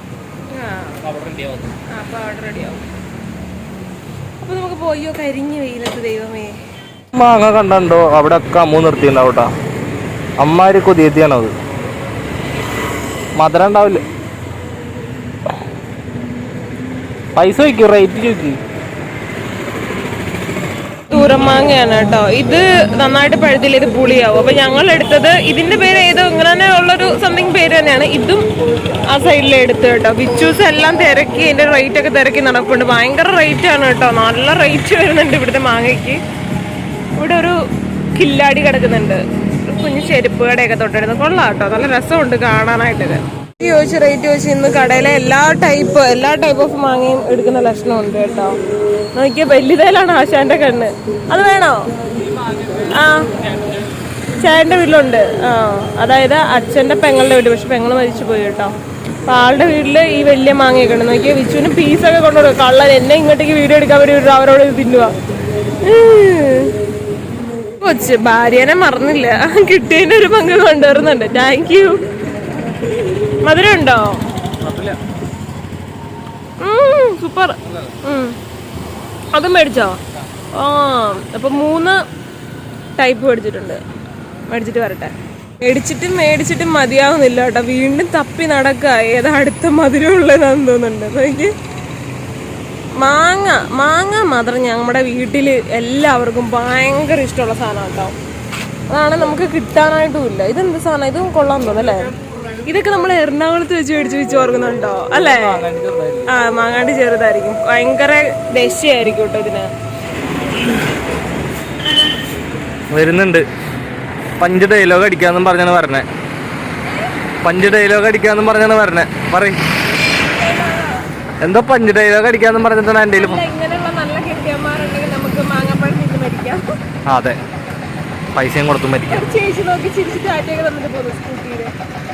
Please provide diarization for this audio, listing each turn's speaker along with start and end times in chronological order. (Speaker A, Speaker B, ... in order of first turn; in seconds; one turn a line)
Speaker A: 0.5-1.0
Speaker B: 1.0-1.8
Speaker A: 1.9-2.8
Speaker A: 4.4-6.5
Speaker B: 7.1-9.5
Speaker B: 10.4-11.5
Speaker B: 13.3-14.1
Speaker B: 17.4-18.6
Speaker A: 21.1-28.4
Speaker A: 29.1-36.2
Speaker A: 37.2-37.6
Speaker A: 38.1-48.6
Speaker A: 49.1-51.9
Speaker B: 52.2-53.9
Speaker A: 52.9-53.3
Speaker A: 54.4-58.7
Speaker A: 59.3-65.1
Speaker A: 65.8-66.7
Speaker A: 67.8-72.0
Speaker A: 73.4-74.2
Speaker B: 74.6-75.0
Speaker A: 76.6-78.4
Speaker B: 77.6-78.0
Speaker A: 79.3-80.0
Speaker A: 80.6-82.0
Speaker A: 83.0-83.8
Speaker A: 84.5-91.5
Speaker A: 93.0-98.1
Speaker A: 98.9-102.1
Speaker A: 102.6-105.6
Speaker B: 105.1-106.3
Speaker A: 106.3-109.7
Speaker B: 112.9-113.4
Speaker B: 114.4-116.0
Speaker B: 117.4-119.6
Speaker A: 120.1-121.0
Speaker B: 121.4-123.4
Speaker A: 123.1-126.6
Speaker B: 127.1-127.4
Speaker B: 128.3-129.2
Speaker A: 129.0-131.7